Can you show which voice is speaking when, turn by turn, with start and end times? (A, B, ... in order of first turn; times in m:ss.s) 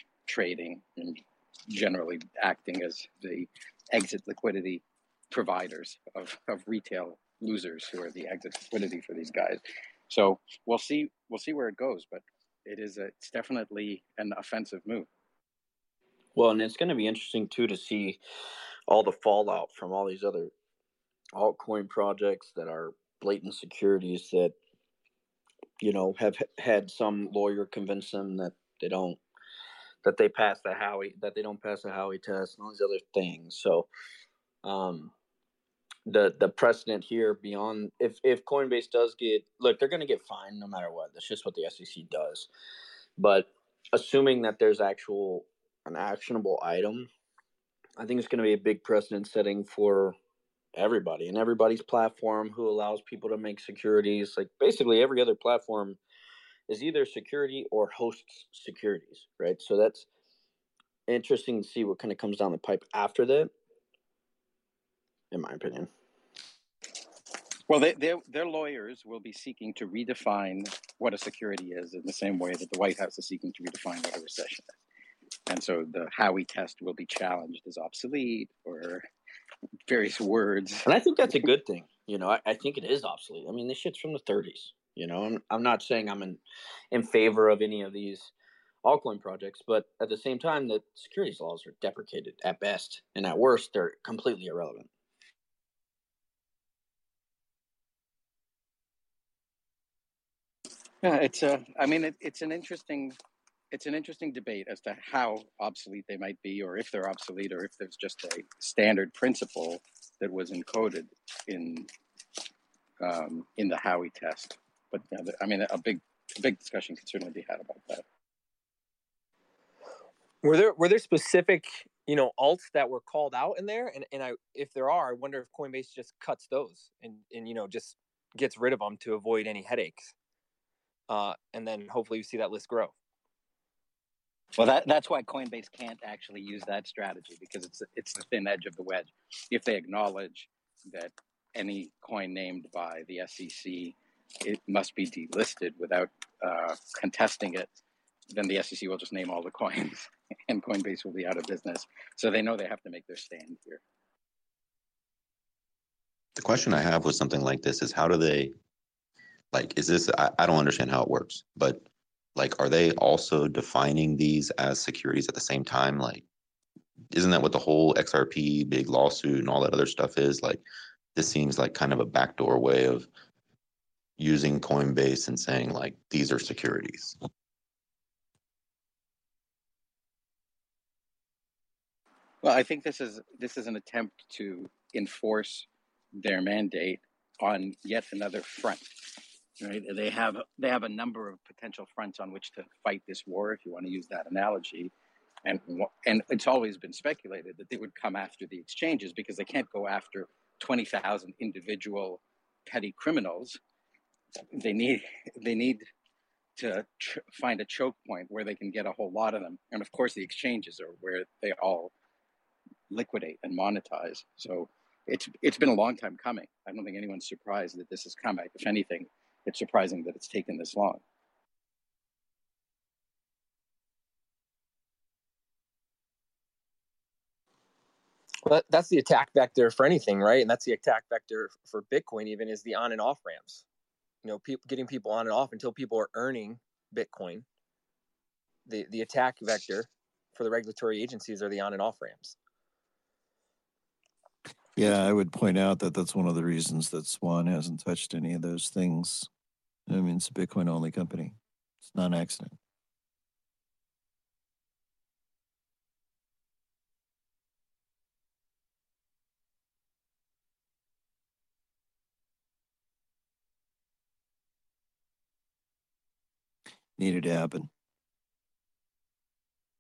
0:00.2-0:15.1 A
0:16.3-0:18.2 B
0:18.9-0:20.5 B
0:21.3-0:24.6 B
0:25.8-0:29.2 B
0:30.0-0:33.9 B
0:34.6-0:35.1 B
0:36.1-0:42.5 B
0:43.2-0:47.1 B
0:48.0-0:50.2 B
0:50.7-0:56.0 B
0:56.7-1:00.0 B
1:01.1-1:03.5 B
1:05.3-1:05.9 B
1:07.7-1:14.7 A
1:15.5-1:19.1 A
1:19.9-1:20.8 A
1:20.8-1:26.4 B
1:26.9-1:28.3 B
1:28.8-1:34.9 B
1:41.0-1:43.2 A
1:43.7-1:51.9 A
1:53.0-1:58.0 A
2:00.4-2:10.1 C
2:11.1-2:12.9 C
2:14.5-2:27.7 A
2:28.3-2:33.8 A
2:36.4-2:38.5 D
2:39.5-2:41.8 D
2:42.4-2:46.2 D
2:47.1-2:50.6 D
2:51.1-2:53.1 D
2:54.2-2:57.1 D
3:02.4-3:14.9 A
3:15.4-3:23.6 A
3:24.5-3:25.9 A
3:26.6-3:31.9 A
3:32.9-3:41.0 A
3:48.4-3:53.6 C
3:54.2-3:57.4 C
3:58.6-4:02.4 C
4:04.8-4:09.3 E
4:09.9-4:12.5 E
4:27.0-4:27.7 E